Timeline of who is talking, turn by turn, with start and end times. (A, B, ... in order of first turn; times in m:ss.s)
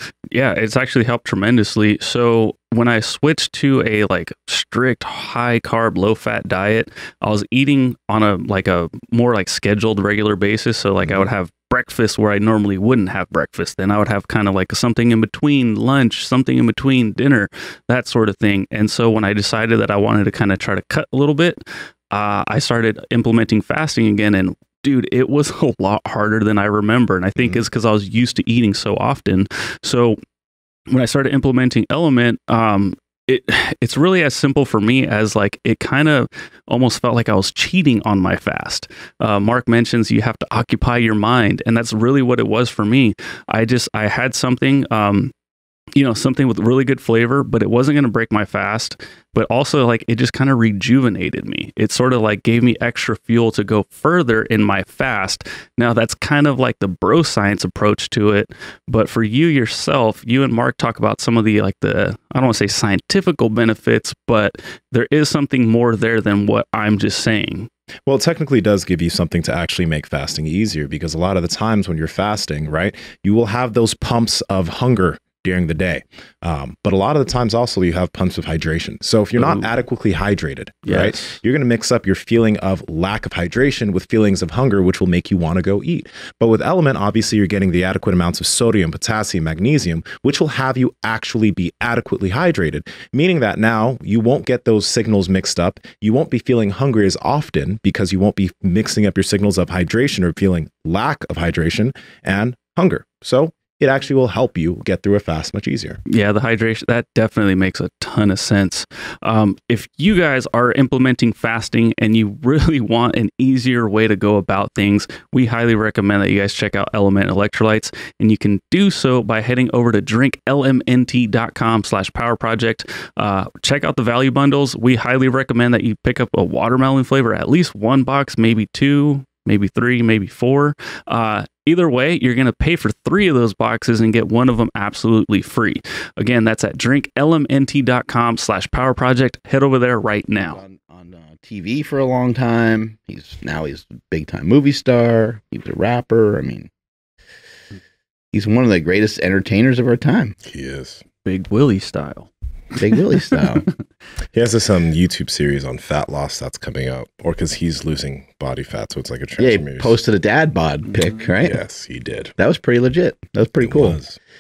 0:00.3-0:30.2 A
0:30.9-0:45.3 A
0:46.0-1:07.7 A
1:08.1-1:46.0 B
1:19.4-1:19.7 A
1:20.9-1:21.4 A
1:46.1-2:20.6 A
2:20.4-2:26.7 C
2:28.3-2:30.4 C
2:30.5-2:31.0 B
2:31.2-2:33.7 A
2:32.8-2:33.7 C
2:34.3-2:40.0 B
2:39.4-2:41.6 C
2:41.4-2:42.4 B
2:42.4-2:44.0 C
2:43.6-2:44.2 B